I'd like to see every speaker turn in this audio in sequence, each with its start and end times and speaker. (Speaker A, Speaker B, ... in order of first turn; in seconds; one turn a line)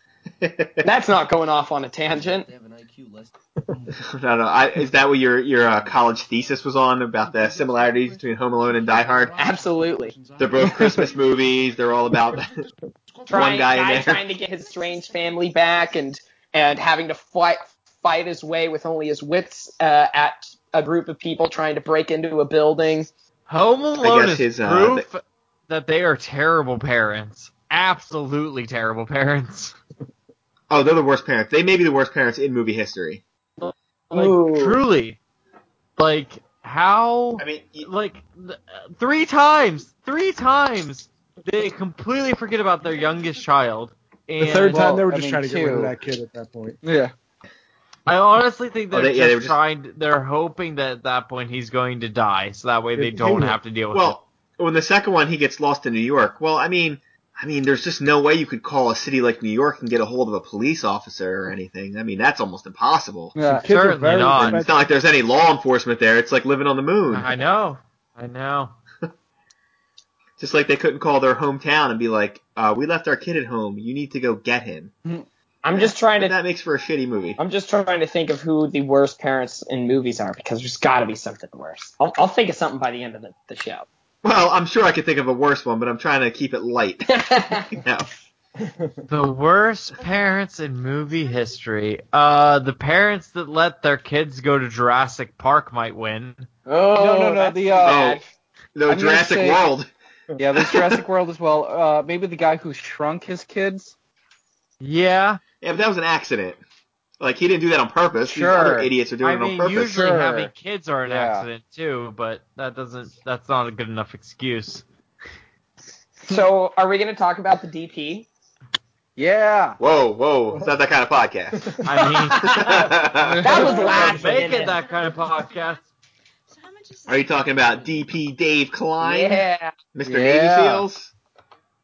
Speaker A: 0.4-0.8
Speaker B: 0.8-2.5
Speaker C: 2.1-4.0
Speaker A: 4.1-9.4
Speaker C: 5.7-6.6
Speaker C: 7.2-13.9
Speaker B: 9.4-10.1
Speaker A: 10.4-12.6
Speaker B: 13.3-23.1
Speaker A: 13.3-14.2
Speaker D: 23.5-29.8
Speaker A: 24.0-25.1
Speaker A: 30.7-33.2
Speaker D: 33.6-35.2
Speaker B: 34.1-34.8
Speaker D: 36.0-44.9
Speaker A: 37.4-37.9
Speaker E: 44.4-46.8
Speaker F: 44.7-45.9
Speaker F: 46.8-47.1
Speaker D: 48.1-54.2
Speaker A: 48.9-49.6
Speaker E: 53.0-53.6
Speaker A: 53.9-63.4
Speaker F: 63.4-63.7
Speaker E: 63.4-64.8
Speaker D: 63.7-64.6
Speaker A: 64.5-67.3
Speaker D: 67.1-68.7
Speaker A: 70.4-74.9
Speaker B: 75.6-76.3
Speaker A: 75.7-77.4
Speaker B: 77.4-83.9
Speaker A: 84.2-88.1
Speaker B: 87.1-87.7
Speaker D: 89.1-96.5
Speaker B: 96.7-98.2
Speaker F: 97.0-98.2
Speaker A: 97.8-98.2
Speaker A: 98.8-99.9
Speaker F: 98.9-99.6
Speaker F: 100.4-104.0
Speaker A: 100.6-101.0
Speaker D: 104.8-105.4
Speaker A: 105.6-106.6
Speaker A: 107.2-110.0
Speaker F: 108.2-108.9
Speaker D: 109.2-114.8
Speaker F: 109.7-110.5
Speaker F: 111.1-111.5
Speaker B: 116.3-118.3
Speaker F: 119.2-119.8
Speaker A: 119.8-121.8
Speaker D: 121.8-122.9
Speaker B: 122.2-122.7
Speaker A: 122.5-123.9
Speaker F: 123.2-124.1
Speaker B: 123.4-124.8
Speaker D: 123.6-125.8
Speaker E: 123.9-124.1
Speaker A: 127.1-129.4
Speaker B: 129.0-129.7
Speaker A: 129.9-131.1
Speaker F: 130.1-130.9